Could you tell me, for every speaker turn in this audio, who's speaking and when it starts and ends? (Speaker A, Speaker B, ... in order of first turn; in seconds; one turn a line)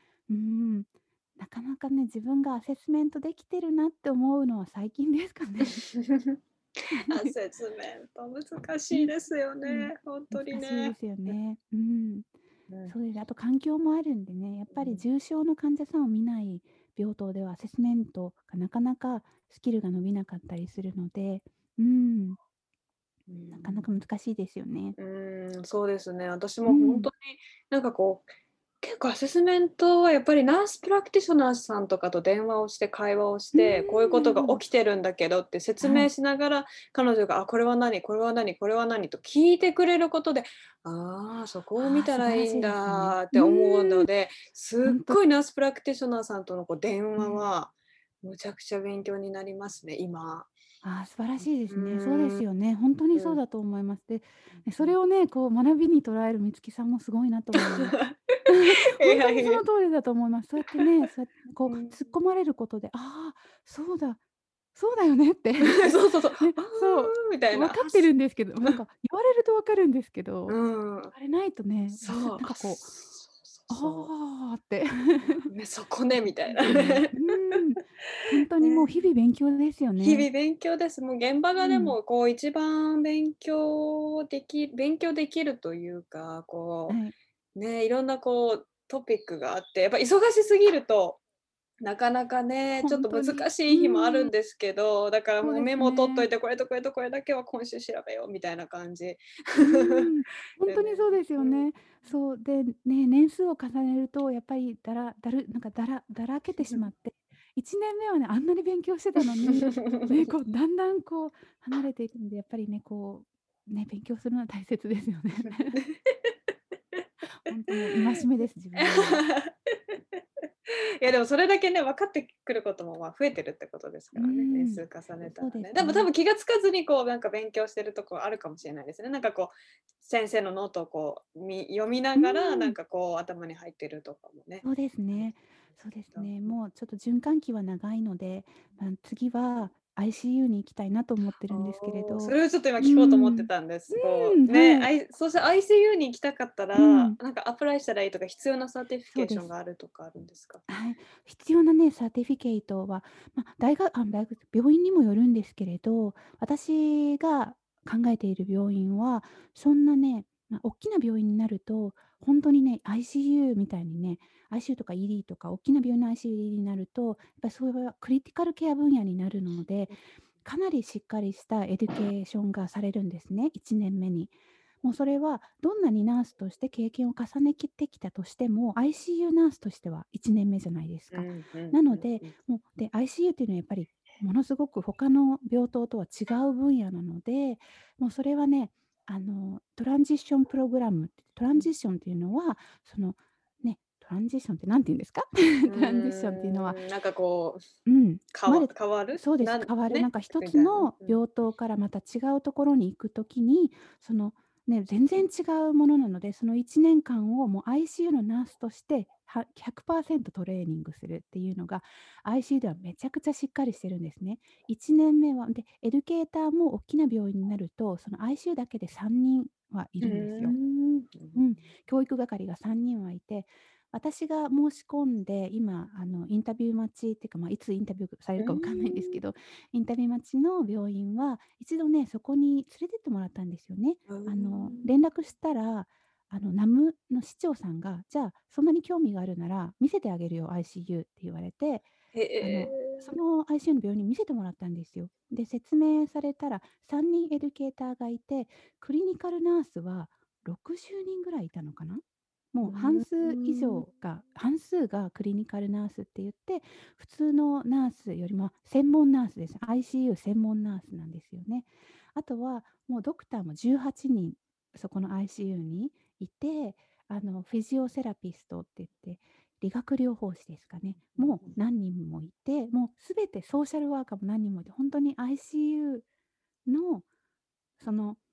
Speaker A: 0.3-5.8
Speaker B: 5.8-6.4
Speaker A: 6.9-7.3
Speaker B: 7.1-11.3
Speaker A: 8.9-12.3
Speaker B: 12.7-12.9
Speaker A: 12.8-22.4
Speaker B: 14.7-15.0
Speaker B: 23.3-23.9
Speaker A: 23.5-24.9
Speaker B: 25.0-28.3
Speaker A: 26.6-27.1
Speaker B: 28.8-50.5
Speaker A: 33.5-34.6
Speaker A: 35.8-36.1
Speaker A: 41.8-44.1
Speaker A: 44.8-45.2
Speaker A: 47.2-47.5
Speaker A: 50.8-64.2
Speaker B: 51.7-52.4
Speaker B: 53.1-53.4
Speaker B: 54.6-55.0
Speaker B: 57.7-59.6
Speaker B: 61.6-62.1
Speaker A: 64.7-70.6
Speaker B: 65.6-68.1
Speaker B: 70.5-71.1
Speaker A: 71.1-72.9
Speaker B: 71.9-74.1
Speaker A: 73.7-75.5
Speaker B: 75.5-77.3
Speaker A: 76.5-80.3
Speaker B: 78.6-79.1
Speaker B: 80.0-87.0
Speaker A: 81.6-82.0
Speaker A: 86.9-87.1
Speaker B: 87.5-91.2
Speaker B: 91.8-100.1
Speaker A: 92.8-94.3
Speaker A: 95.4-96.3
Speaker A: 99.6-115.8
Speaker B: 100.6-101.7
Speaker B: 106.6-106.8
Speaker B: 109.7-110.1
Speaker B: 115.7-117.0
Speaker A: 117.4-119.2
Speaker B: 118.8-135.3
Speaker A: 124.1-126.1
Speaker A: 132.1-132.8
Speaker A: 134.6-144.9
Speaker B: 141.5-150.6
Speaker A: 146.7-147.2
Speaker A: 149.1-149.5
Speaker A: 150.7-196.8
Speaker B: 181.1-182.3
Speaker B: 195.6-197.7
Speaker A: 197.8-220.5
Speaker B: 198.3-201.2
Speaker B: 220.0-221.5
Speaker A: 221.3-241.9
Speaker B: 228.4-229.2
Speaker B: 234.1-234.9
Speaker B: 242.1-243.1
Speaker A: 242.4-276.0
Speaker B: 252.6-253.8
Speaker B: 271.0-271.6
Speaker A: 276.6-277.1
Speaker A: 277.8-278.2